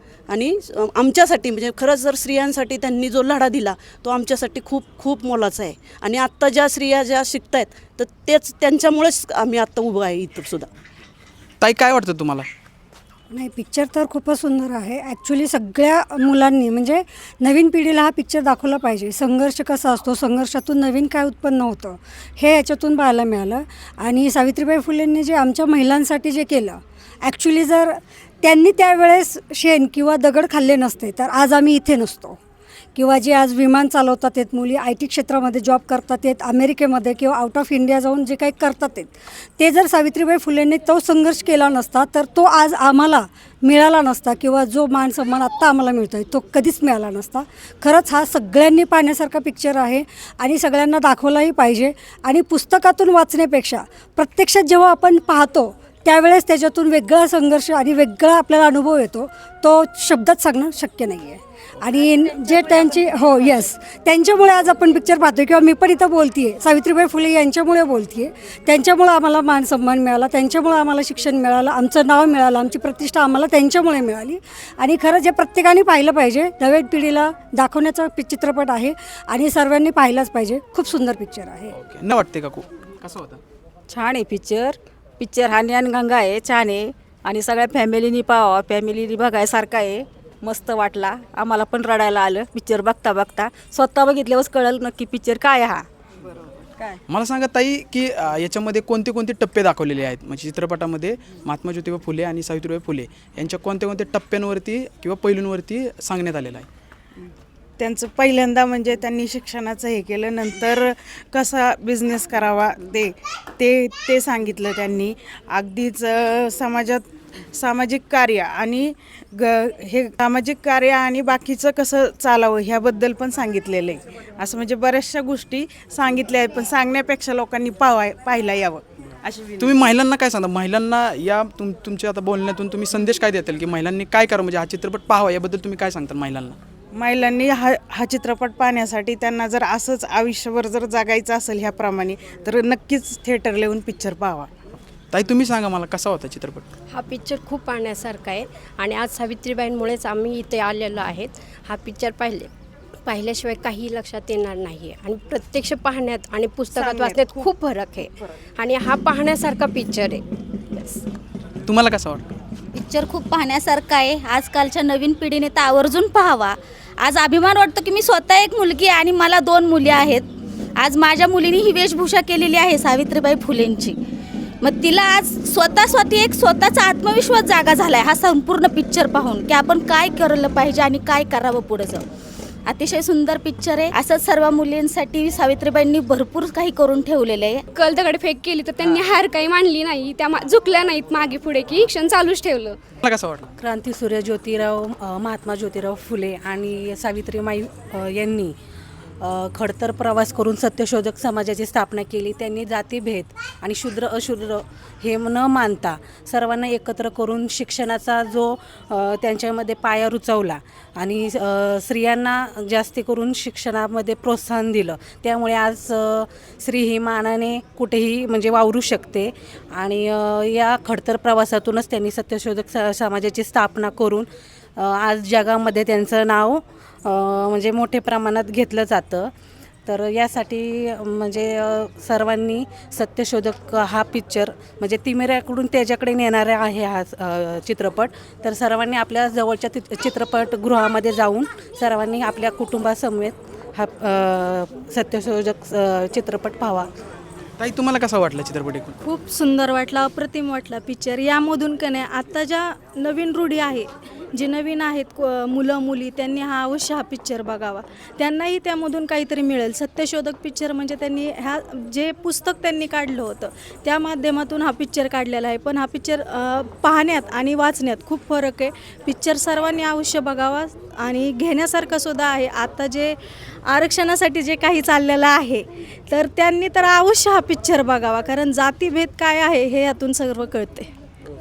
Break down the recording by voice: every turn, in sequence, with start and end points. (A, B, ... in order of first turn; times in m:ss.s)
0:00.3-0:10.7 A
0:11.6-0:12.5 B
0:13.3-0:32.4 C
0:33.0-1:21.7 C
1:21.7-1:23.4 B
1:23.9-1:35.8 D
1:37.1-1:46.7 B
1:47.8-2:09.9 E
2:09.6-2:16.6 B
2:16.9-2:24.5 E
2:25.1-2:26.7 B
2:26.9-2:32.5 F
2:33.0-2:41.0 F
2:36.8-2:37.5 E
2:41.7-2:42.3 B
2:42.7-2:50.3 G
2:50.8-2:54.0 G
2:54.6-3:02.0 G
3:02.7-3:07.6 G
3:07.8-3:12.8 H
3:08.8-3:09.1 B
3:13.0-3:13.5 B
3:13.6-3:18.5 I
3:19.4-3:44.2 I
3:44.8-3:49.3 I
3:49.9-4:06.8 I
4:07.6-4:09.0 B
4:09.0-4:33.2 J
4:33.7-4:40.9 J